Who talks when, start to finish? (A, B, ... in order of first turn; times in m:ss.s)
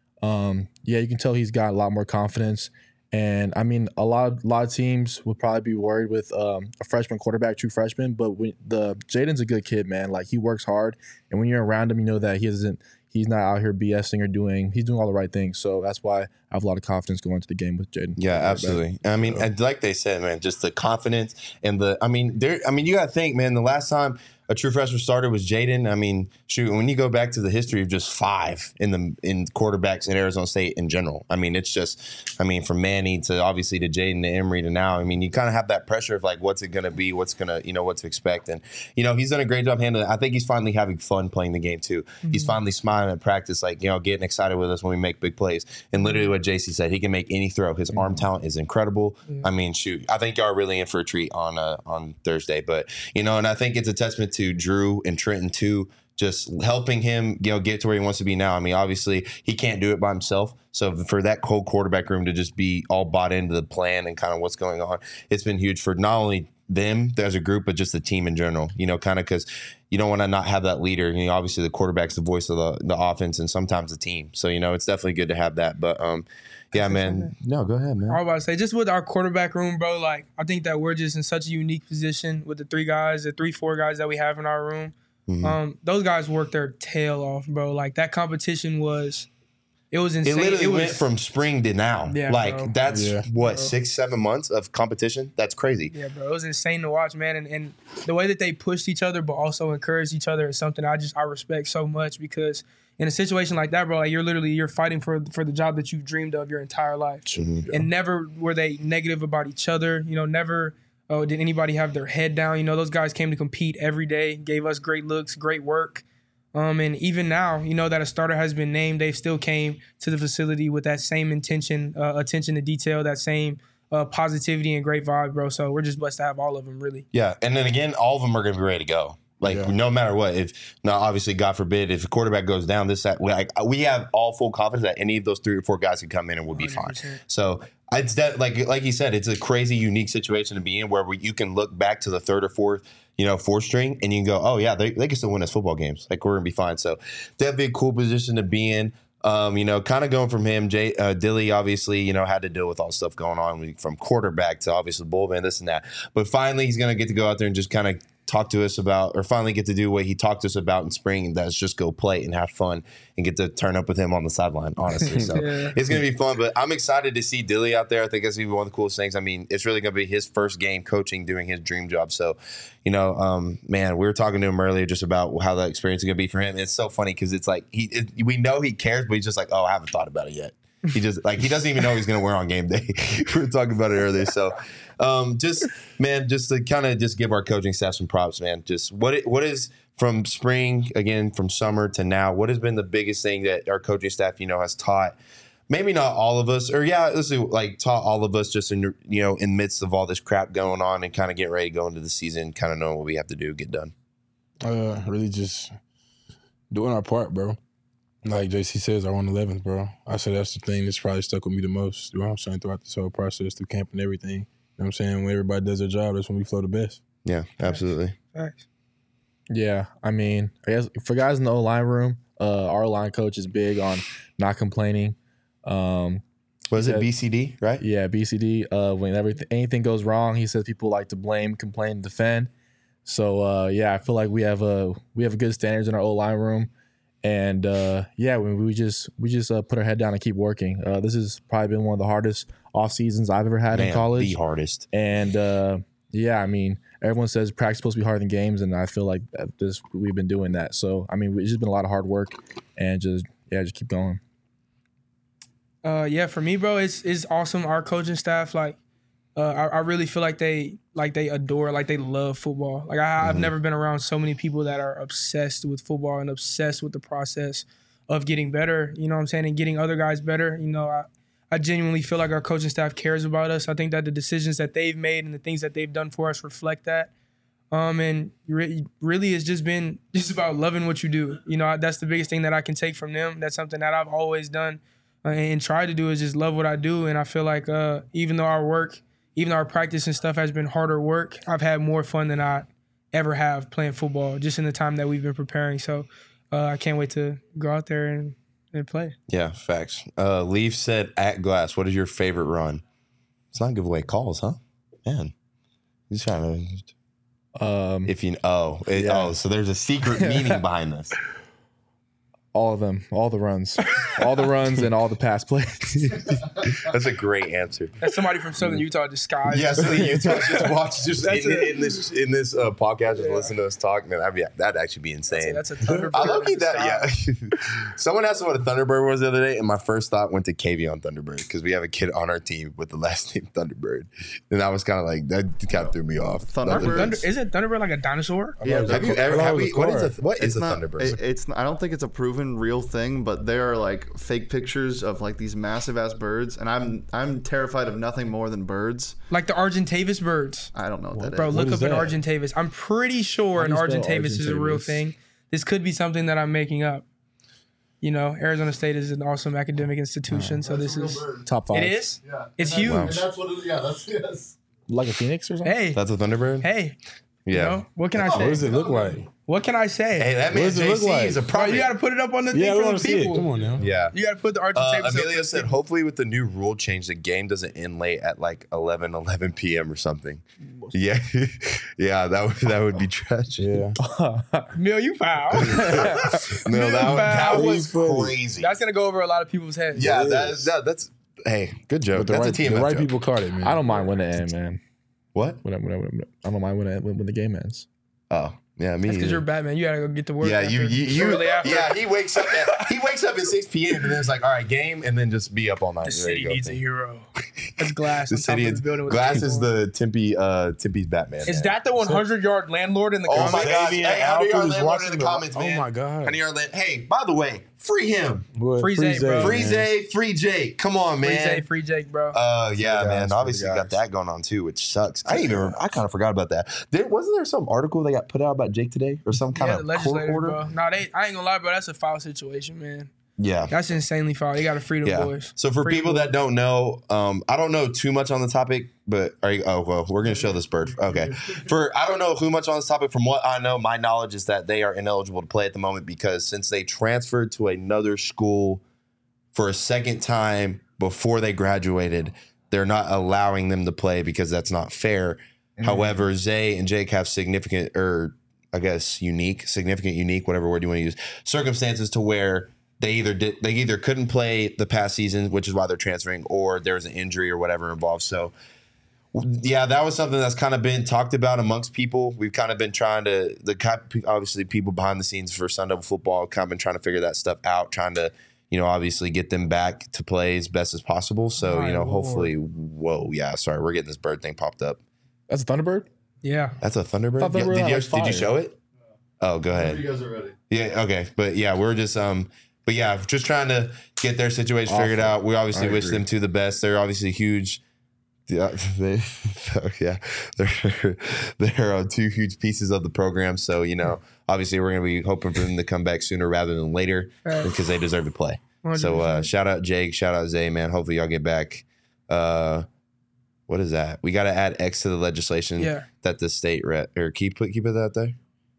0:00.2-0:18.8 A
0:18.2-1:18.2 B
0:42.2-0:42.6 C
0:46.0-0:46.3 C
1:16.7-1:17.3 C
1:18.1-1:29.3 C
1:25.3-1:25.6 B
1:29.9-1:31.0 C
1:30.2-1:35.9 B
1:32.1-1:32.7 C
1:32.9-1:33.2 D
1:33.4-1:33.7 C
1:35.9-2:07.0 C
1:47.3-1:47.7 B
2:07.1-3:15.2 B
2:09.4-2:09.7 D
2:16.5-2:17.2 C
2:45.3-2:45.8 C
3:15.7-3:23.9 B
3:24.6-3:25.7 D
3:26.7-3:27.6 D
3:28.2-3:37.0 D
3:37.2-3:38.1 B
3:38.3-3:38.6 C
3:39.5-3:46.2 A
3:46.7-3:47.8 B
3:46.7-3:47.1 A
3:47.8-3:52.5 A
3:53.0-3:56.7 A
3:57.2-4:04.4 A
4:03.7-4:04.9 B
4:04.9-4:14.2 A
4:15.8-4:18.8 C
4:19.4-4:37.1 C
4:23.2-4:23.5 B
4:37.7-4:59.2 C
4:59.3-5:02.8 B
5:03.5-5:05.3 B
5:06.1-5:06.9 B
5:07.6-5:08.1 A
5:08.0-5:11.1 B
5:08.9-5:09.4 A
5:10.1-5:10.6 A
5:12.5-5:16.3 A
5:16.1-5:17.9 B
5:18.0-5:20.7 C
5:19.5-5:37.2 B
5:21.2-5:21.8 C
5:23.2-5:23.5 C
5:25.3-5:27.1 C
5:36.4-5:37.2 E
5:36.6-5:38.6 C
5:38.6-5:40.2 D
5:38.6-5:39.5 E
5:38.9-5:41.1 B
5:40.4-5:49.2 E
5:49.3-5:50.7 C
5:50.7-5:51.7 E
5:51.3-5:57.0 C
5:51.5-5:52.2 D
5:53.5-5:55.0 A
5:58.0-6:03.2 C
6:00.3-6:00.6 A
6:00.6-6:01.5 E
6:01.4-6:02.1 A
6:02.2-6:04.5 E
6:02.8-6:03.2 B
6:04.9-6:05.7 A
6:05.6-6:06.0 C
6:05.9-6:06.7 B
6:06.6-6:07.0 C
6:07.4-6:07.8 B
6:07.5-6:08.7 C
6:08.2-6:09.3 D
6:08.2-6:09.2 E
6:09.4-6:10.3 C
6:10.2-6:11.9 B
6:10.5-6:11.4 D
6:11.5-6:15.7 C
6:12.5-6:13.8 D
6:13.8-6:14.2 B
6:14.7-6:23.8 B
6:23.6-6:24.0 D
6:24.0-6:24.7 A
6:24.7-6:27.7 C
6:25.6-6:28.7 B
6:25.7-6:26.4 A
6:27.3-6:28.4 D
6:28.6-6:30.1 C
6:30.0-6:30.7 D
6:30.0-6:33.1 B
6:32.1-6:33.9 D
6:33.6-6:34.8 A
6:35.3-6:35.6 B
6:35.6-6:37.8 A
6:38.3-6:39.4 B
6:39.0-6:42.8 C
6:40.4-6:46.8 B
6:46.0-6:47.3 C
6:47.8-6:49.7 C
6:48.3-6:51.8 B
6:51.4-6:53.8 C
6:52.0-6:52.2 D
6:53.3-6:58.5 B
6:53.3-6:56.4 D
6:58.6-6:59.9 D
6:58.8-6:59.6 C
6:59.4-7:01.7 B
7:01.2-7:02.4 C
7:02.3-7:10.6 B
7:02.8-7:04.0 A
7:09.5-7:13.1 C
7:13.4-7:13.7 B
7:13.7-7:16.3 C
7:15.0-7:28.8 B
7:29.5-7:48.5 B
7:35.8-7:36.2 A
7:49.3-8:05.0 B
8:01.6-8:02.5 C
8:05.5-8:06.1 A
8:06.4-8:06.8 C
8:06.8-8:08.8 B
8:07.4-8:08.6 A
8:09.4-8:10.1 B
8:09.7-8:10.5 E
8:10.7-8:17.8 B
8:14.9-8:16.2 A
8:18.5-8:32.9 B
8:27.4-8:27.7 C
8:28.8-8:29.5 C
8:33.7-8:38.4 B
8:35.8-8:36.0 C